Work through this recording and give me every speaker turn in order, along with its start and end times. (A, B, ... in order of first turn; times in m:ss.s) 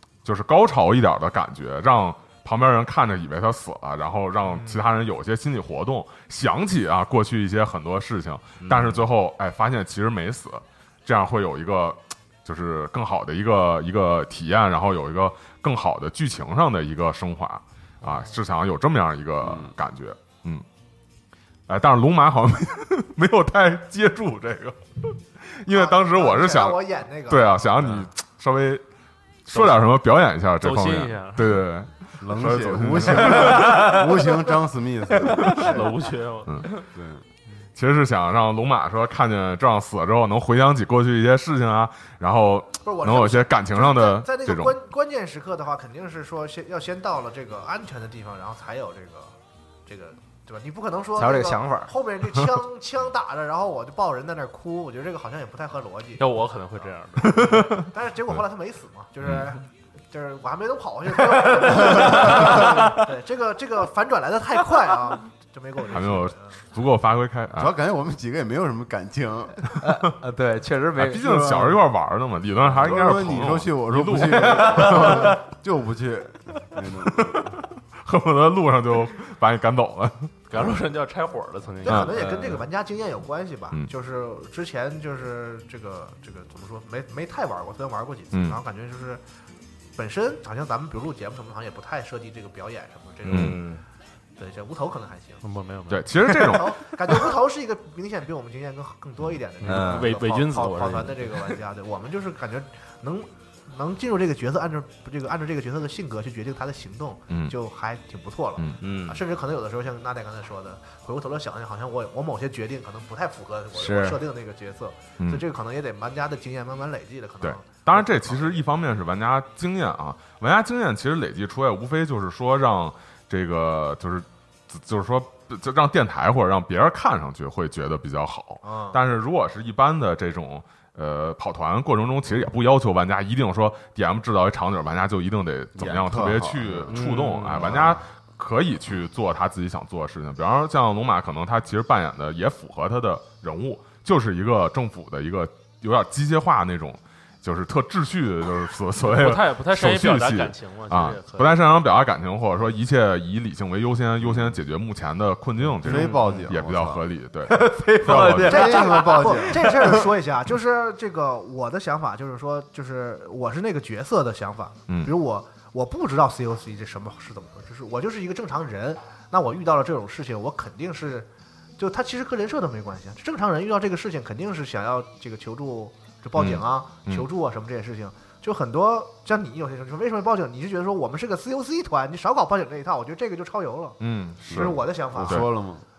0:00.2-0:20.6 A
0:08.6-0:09.1 B
0:19.4-0:19.7 C
0:21.7-0:28.8 A
0:25.7-0:27.6 D
0:29.4-0:33.9 A
0:29.5-0:29.9 E
0:30.6-0:31.6 E
0:32.2-0:35.5 C
0:33.6-0:34.0 B
0:35.3-0:35.6 B
0:35.4-0:36.8 E
0:35.5-0:36.0 D
0:36.9-0:37.2 C
0:37.8-0:44.8 A
0:42.8-0:49.3 D
0:49.8-0:56.2 D
0:51.2-0:51.9 B
0:56.2-0:57.6 E
0:57.3-0:58.3 A
0:57.3-1:06.6 D
1:01.8-1:02.1 B
1:05.9-1:07.7 A
1:07.6-1:09.7 C
1:09.8-1:11.8 B
1:11.0-1:15.4 A
1:12.6-1:17.6 C
1:14.8-1:15.1 B
1:17.1-1:20.3 A
1:20.5-1:22.6 E
1:21.8-1:22.3 A
1:21.8-1:29.2 D
1:28.3-1:28.6 A
1:30.0-1:33.6 D
1:33.3-1:33.8 B
1:33.3-1:33.6 A
1:34.4-1:35.4 D
1:35.4-1:36.6 E
1:35.9-1:36.8 A
1:36.3-1:58.6 D
1:39.6-1:41.5 E
1:39.6-1:40.1 B
1:47.3-1:47.5 A
1:48.8-1:49.2 B
1:53.7-1:54.2 B
1:57.4-2:38.8 A
2:08.6-2:09.0 D
2:15.7-2:17.0 C
2:16.9-2:17.8 B
2:17.5-2:18.0 C
2:29.0-2:31.8 E
2:34.2-2:34.5 C
2:35.6-2:37.0 C
2:35.9-2:36.2 E
2:37.4-2:39.9 B
2:38.1-2:40.1 C
2:38.4-3:05.4 D
2:44.9-2:45.1 A
2:56.4-2:57.3 A
3:04.0-3:05.5 A
3:04.5-3:05.8 C